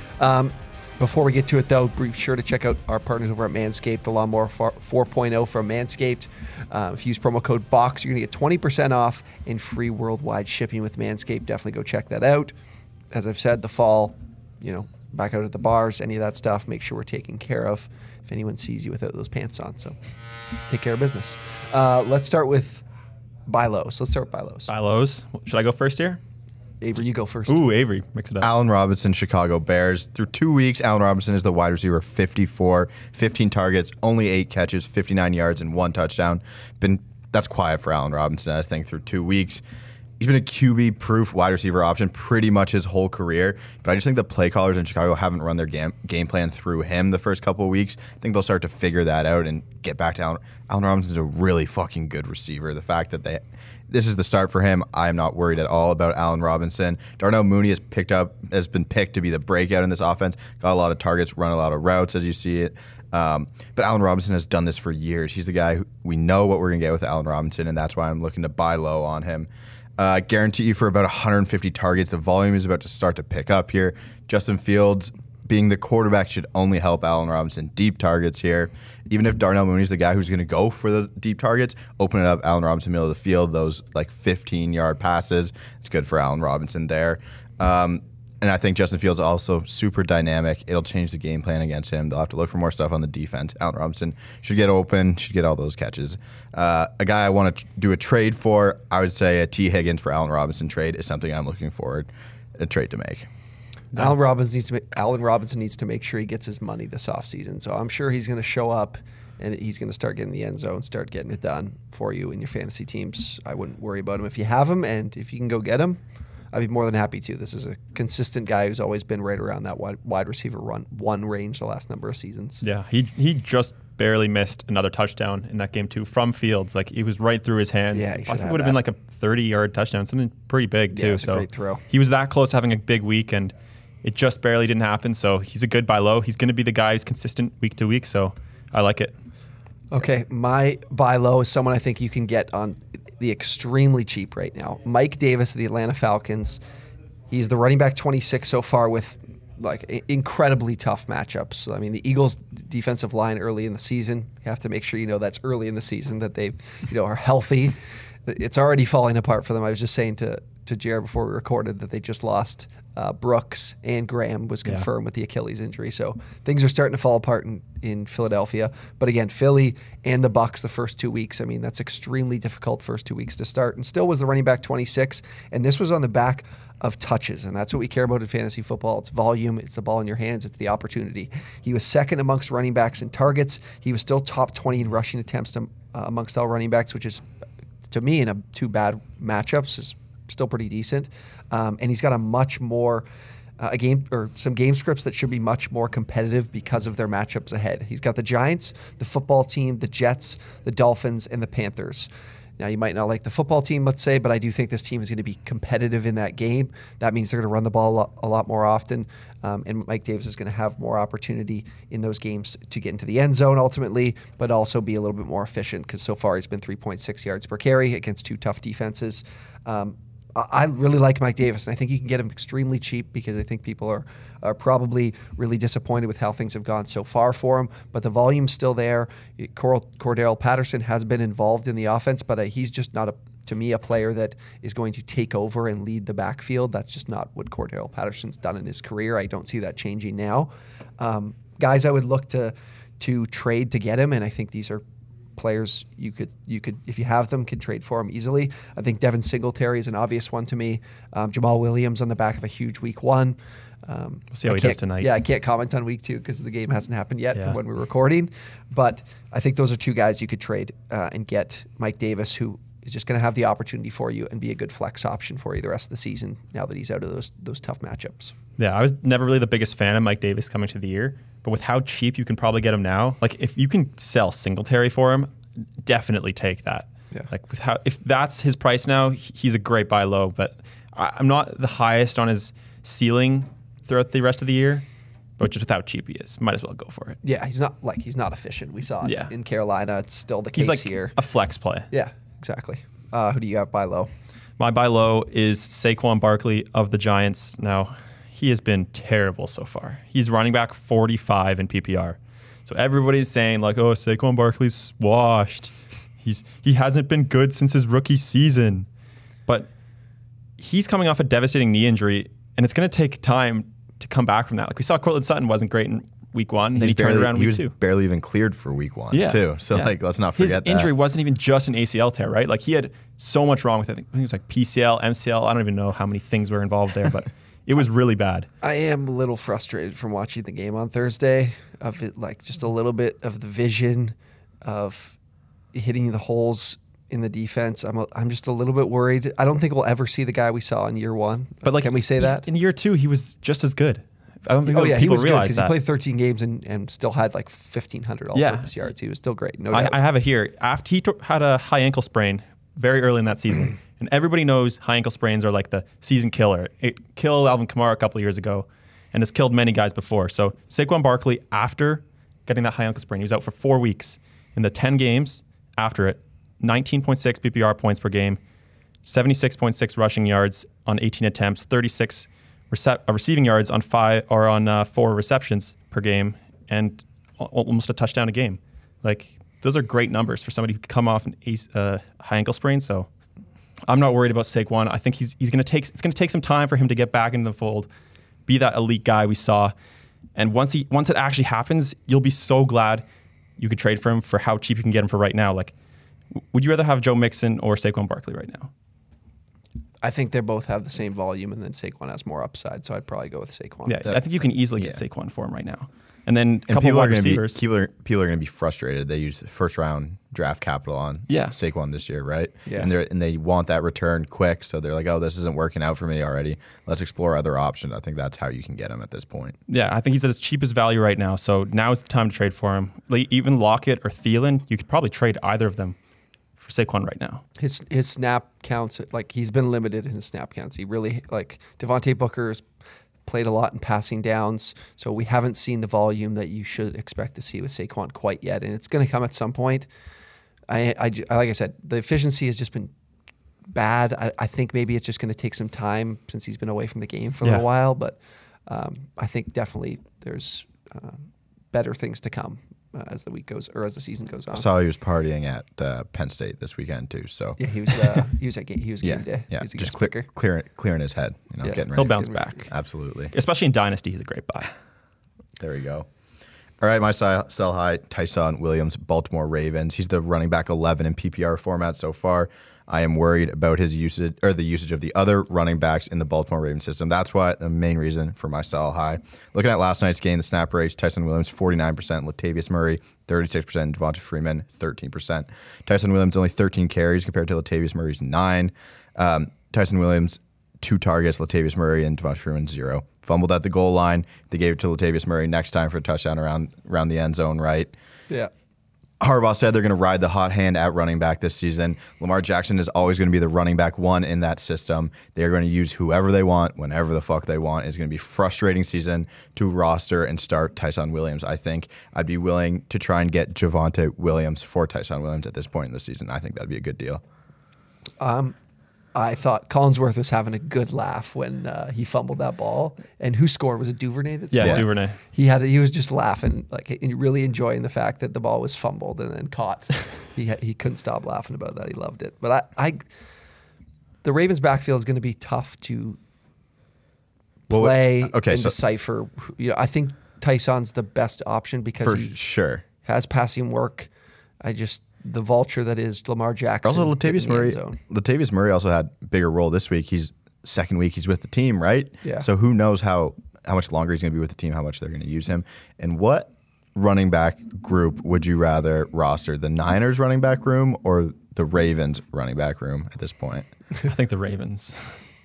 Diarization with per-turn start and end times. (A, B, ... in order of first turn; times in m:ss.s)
0:00.2-0:12.5 A
0:13.1-0:20.0 A
0:20.7-0:22.8 A
0:23.5-0:24.7 A
0:24.7-0:26.2 B
0:26.8-0:27.6 A
0:27.5-0:28.5 B
0:28.4-0:39.6 C
0:40.2-1:43.3 C
1:43.9-1:56.0 A
1:56.5-2:02.6 A
2:02.6-2:19.1 B
2:07.9-2:08.8 A
2:10.9-2:11.8 A
2:19.9-2:26.6 A
2:27.3-2:37.7 A
2:38.2-3:07.2 A
3:07.9-3:13.0 A
3:13.6-4:04.8 A
4:05.4-4:28.3 A
4:14.3-4:15.1 B
4:28.6-4:35.3 B
4:35.8-4:44.8 B
4:45.4-4:47.2 B
4:47.2-4:51.2 A
4:49.0-4:49.3 B
4:50.6-4:51.9 B
4:51.9-4:54.1 A
4:54.6-5:08.9 B
5:10.6-5:17.8 B
5:16.8-5:20.9 C
5:19.1-5:28.5 B
5:28.6-5:35.2 A
5:35.7-5:42.4 A
5:41.6-5:45.8 B
5:44.6-5:50.0 A
5:48.4-5:48.8 B
5:49.7-6:08.4 B
6:09.0-6:23.1 B
6:23.9-6:27.9 B
6:28.5-6:29.7 B
6:30.4-6:33.0 B
6:33.6-6:35.7 B
6:36.4-6:38.7 B
6:40.0-6:44.0 A
6:43.9-6:47.6 B
6:44.8-6:45.0 C
6:46.7-6:59.6 C
6:51.3-6:51.6 B
6:52.7-6:52.9 A
6:59.7-7:06.0 B
7:06.6-7:07.4 B
7:07.6-7:12.7 A
7:13.3-7:19.9 A
7:20.7-7:22.9 A
7:23.7-7:34.7 A
7:34.5-7:37.6 C
7:37.6-7:40.3 A
7:39.0-7:43.3 C
7:41.6-7:42.7 A
7:42.0-7:44.7 B
7:45.6-7:46.1 C
7:46.8-8:17.9 C
8:19.2-8:37.2 C
8:38.2-8:38.6 A
8:39.2-8:53.0 A
8:44.5-8:45.2 B
8:44.6-8:44.8 C
8:54.2-8:56.2 A
8:57.7-9:02.4 A
8:57.7-8:58.8 C
9:02.0-9:02.8 C
9:03.0-9:04.1 A
9:04.6-9:08.0 A
9:06.8-9:23.7 C
9:12.2-9:12.5 A
9:24.0-9:25.2 B